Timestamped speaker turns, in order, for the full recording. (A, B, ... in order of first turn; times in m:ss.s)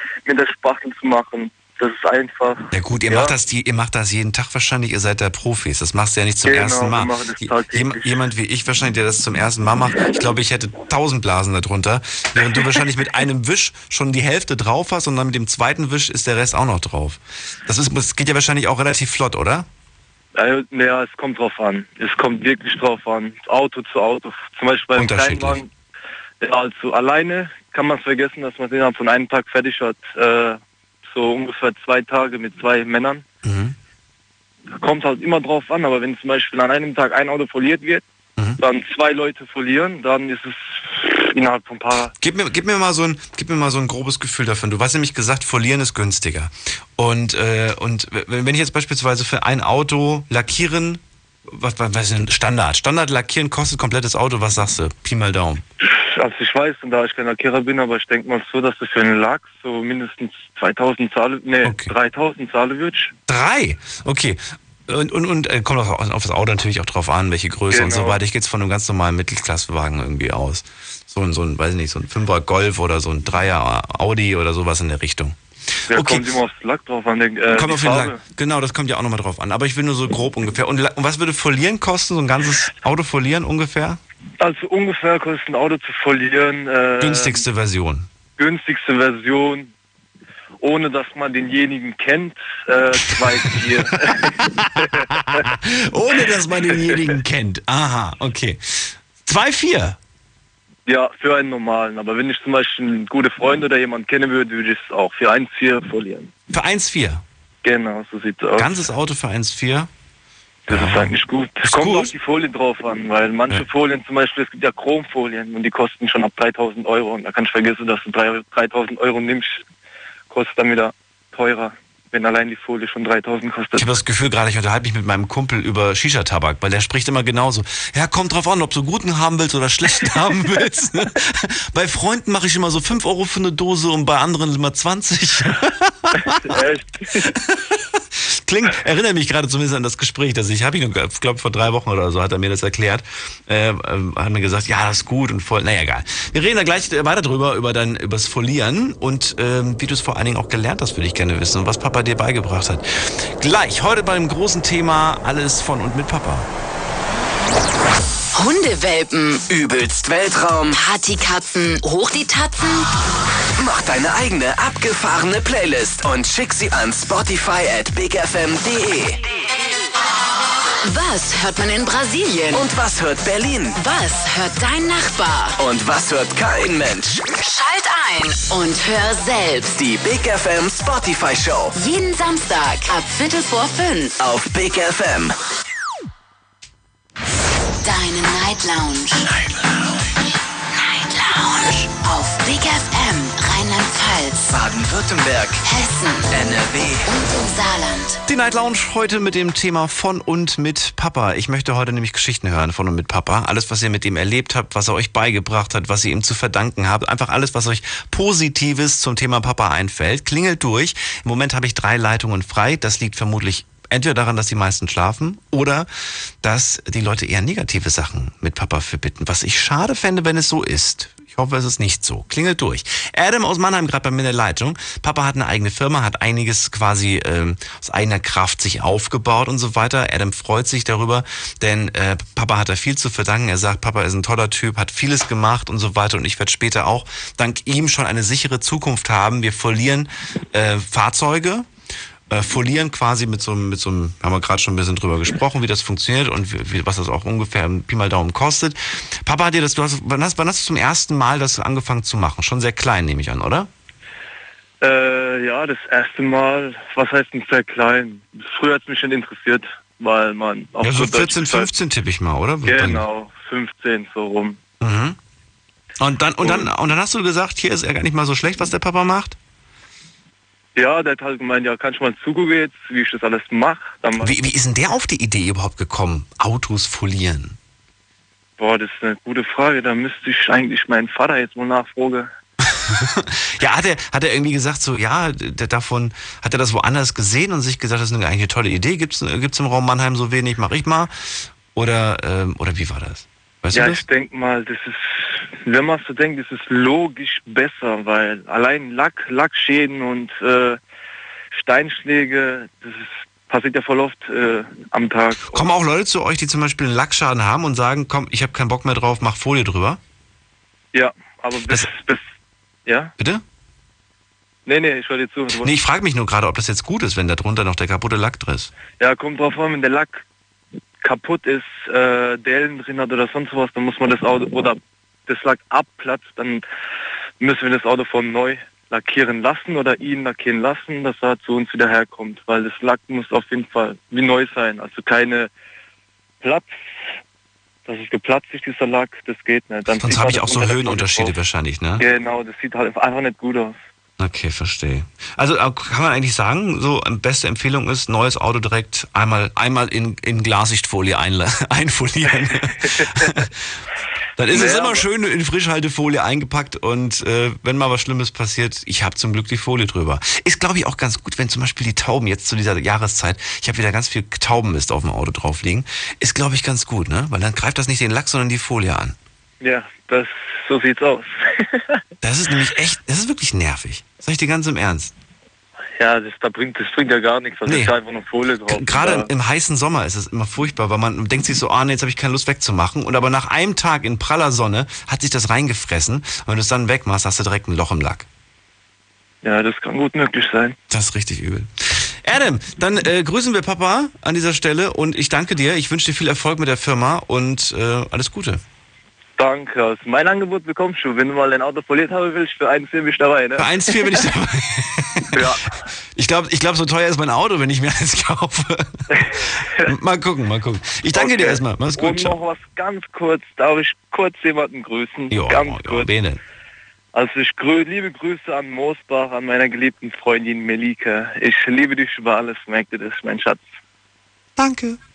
0:00.2-0:03.3 A
0:02.7-0:19.7 B
0:06.4-0:08.2 A
0:20.3-0:25.7 A
0:25.0-0:25.6 B
0:26.4-0:33.2 A
0:33.4-0:33.7 B
0:34.8-0:38.0 A
0:38.6-0:42.1 A
0:42.2-0:55.6 B
0:55.8-1:03.1 A
1:01.6-1:01.9 B
1:03.3-1:16.4 B
1:07.7-1:08.2 A
1:15.9-1:18.2 A
1:17.5-1:24.0 B
1:24.4-1:27.4 A
1:27.0-1:28.1 B
1:28.4-1:29.7 A
1:30.6-1:35.4 A
1:33.8-1:40.0 B
1:36.8-1:37.1 A
1:40.9-1:46.3 A
1:46.5-1:47.2 B
1:47.6-1:48.7 A
1:48.6-1:49.9 B
1:50.7-1:52.1 B
1:50.7-1:59.6 A
2:00.3-2:03.9 A
2:03.8-2:16.6 B
2:16.3-2:17.3 A
2:17.2-2:36.5 B
2:38.3-2:39.5 C
2:39.5-2:40.8 D
2:40.7-2:42.9 C
2:43.6-2:49.2 D
2:50.8-2:52.7 C
2:52.5-2:53.8 D
2:53.7-2:55.6 C
2:55.6-2:57.2 D
2:57.3-2:59.8 C
2:59.7-3:01.8 D
3:01.7-3:04.1 C
3:04.2-3:05.3 D
3:07.8-3:09.3 C
3:10.7-3:14.5 C
3:14.5-3:15.6 D
3:15.6-3:16.3 C
3:16.3-3:17.1 D
3:17.0-3:18.2 C
3:18.3-4:01.7 B
4:02.3-4:13.7 B
4:14.8-4:21.7 A
4:20.8-4:23.0 B
4:22.6-4:24.6 A
4:24.8-4:25.2 B
4:26.0-4:29.4 B
4:26.4-4:26.7 A
4:30.8-4:34.4 A
4:34.2-4:37.6 B
4:38.6-4:42.3 A
4:42.7-4:54.0 B
4:53.7-5:00.8 A
5:01.5-5:05.7 A
5:05.4-5:10.0 B
5:10.9-5:12.2 A
5:12.8-5:13.1 A
5:13.2-5:13.4 B
5:14.6-5:15.7 A
5:15.5-5:18.7 B
5:19.0-5:20.2 A
5:21.0-5:26.6 A
5:27.4-5:35.5 A
5:36.4-5:36.8 A
5:37.8-5:41.3 A
5:40.0-5:42.0 B
5:42.0-5:43.8 A
5:44.2-5:53.7 B
5:52.8-5:53.4 A
5:54.4-6:09.2 B
5:54.5-5:55.0 A
6:09.6-6:12.0 A
6:12.2-6:15.1 B
6:16.0-6:19.3 A
6:17.7-6:17.9 B
6:18.7-6:28.2 B
6:29.4-6:30.8 A
6:30.9-6:38.6 B
6:39.4-6:44.3 A
6:43.6-6:45.5 B
6:45.3-6:45.6 A
6:46.1-6:52.4 B
6:49.1-6:49.8 A
6:51.1-6:56.1 A
6:55.3-6:56.4 B
6:57.1-7:03.7 A
7:04.6-7:05.0 B